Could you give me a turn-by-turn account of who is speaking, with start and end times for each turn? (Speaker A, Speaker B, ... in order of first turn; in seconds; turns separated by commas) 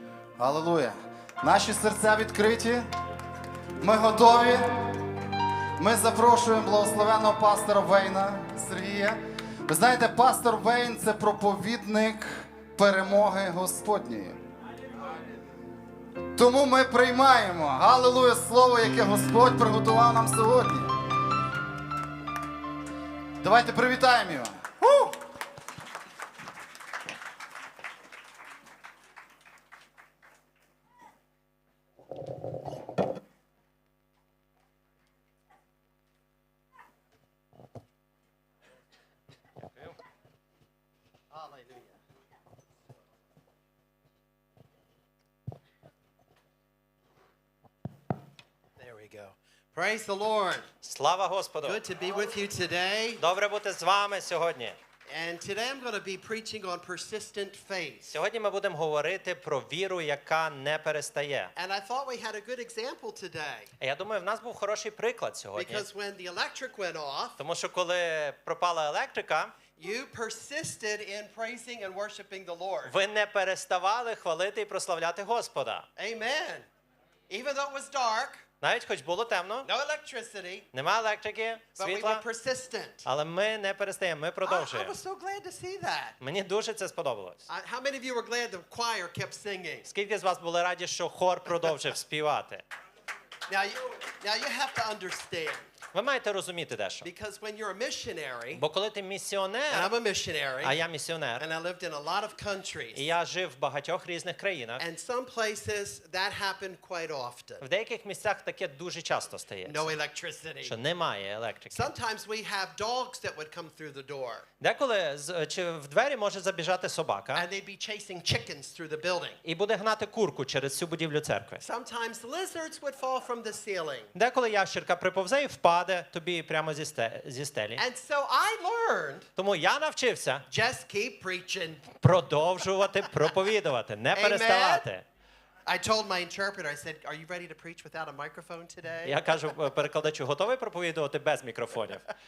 Speaker A: 0.4-2.9, Speaker A: 3.8-4.7, Speaker A: 5.8-14.4, Speaker A: 16.4-20.9, Speaker A: 23.4-25.1, Speaker B: 41.3-42.0, Speaker B: 48.8-50.7, Speaker C: 50.8-51.8, Speaker B: 51.6-53.2, Speaker C: 53.2-54.8, Speaker B: 55.1-58.2, Speaker C: 58.1-61.5, Speaker B: 61.6-63.7, Speaker C: 63.8-65.9, Speaker B: 65.6-67.4, Speaker C: 67.4-69.5, Speaker B: 69.8-72.9, Speaker C: 72.8-75.9, Speaker B: 76.0-76.7, Speaker B: 77.3-78.5, Speaker C: 78.6-79.7, Speaker B: 79.6-80.7, Speaker C: 80.7-82.2, Speaker B: 81.8-83.1, Speaker C: 83.0-85.0, Speaker B: 84.4-86.2, Speaker C: 86.2-87.5, Speaker B: 87.5-89.9, Speaker C: 89.9-92.6, Speaker B: 93.5-95.7, Speaker C: 95.9-97.1, Speaker B: 97.0-98.6, Speaker C: 98.5-99.9, Speaker B: 99.7-100.8, Speaker C: 100.6-101.5, Speaker B: 101.4-103.1, Speaker C: 102.9-104.8, Speaker B: 104.8-107.7, Speaker C: 107.6-109.9, Speaker B: 109.7-110.8, Speaker C: 110.6-111.9, Speaker B: 111.7-114.5, Speaker C: 114.6-117.5, Speaker B: 117.3-119.4, Speaker C: 119.4-121.6, Speaker B: 121.6-124.1, Speaker C: 124.1-127.8, Speaker B: 127.8-129.3, Speaker C: 129.4-130.5, Speaker B: 130.5-132.0, Speaker C: 132.0-135.1, Speaker B: 134.1-134.9, Speaker B: 135.7-139.2, Speaker C: 139.0-142.1